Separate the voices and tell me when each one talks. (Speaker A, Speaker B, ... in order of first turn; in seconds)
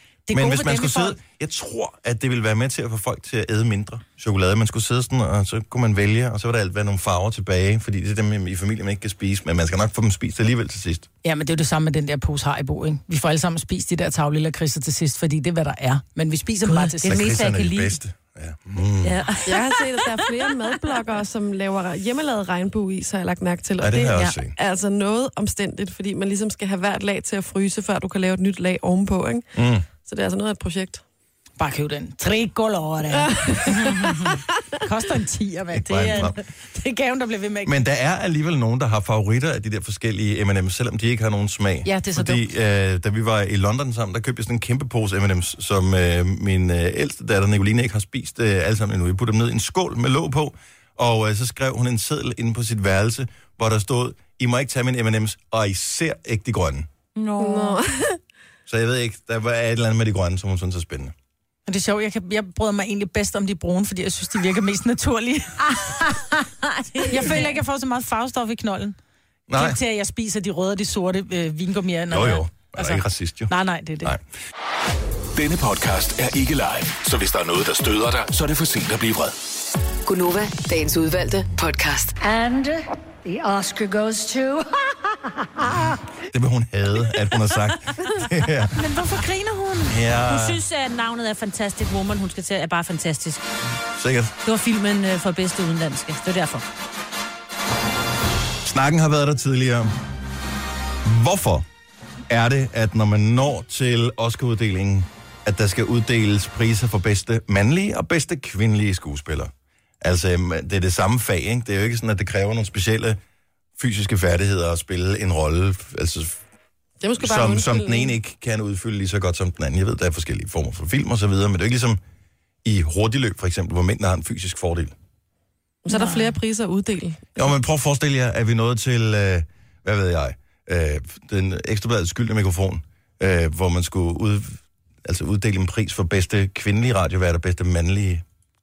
Speaker A: 0.3-1.2, 11.2-17.2, 31.6-37.8, 41.9-42.5, 61.7-66.5, 67.1-69.0, 69.5-74.1, 88.7-90.0, 125.9-126.3
Speaker B: 0.3-11.1, 17.1-19.2, 23.8-24.6, 29.6-29.9, 35.7-36.4, 37.6-56.9, 58.7-61.1, 69.5-69.8, 72.1-74.2, 86.3-88.8, 89.9-90.6, 94.0-94.3, 98.6-99.9, 101.0-101.7, 102.3-113.2, 113.8-116.4, 117.2-122.0, 122.6-124.9, 127.4-138.2
Speaker C: 16.6-18.0, 19.0-20.2, 57.2-57.8, 66.8-67.5, 90.2-93.4, 94.4-96.7
Speaker D: 19.4-29.5, 30.0-31.0, 33.1-34.3, 57.4-58.2, 117.0-118.1, 125.8-127.4
Speaker E: 75.4-79.3
Speaker F: 80.0-82.2
Speaker G: 82.2-84.8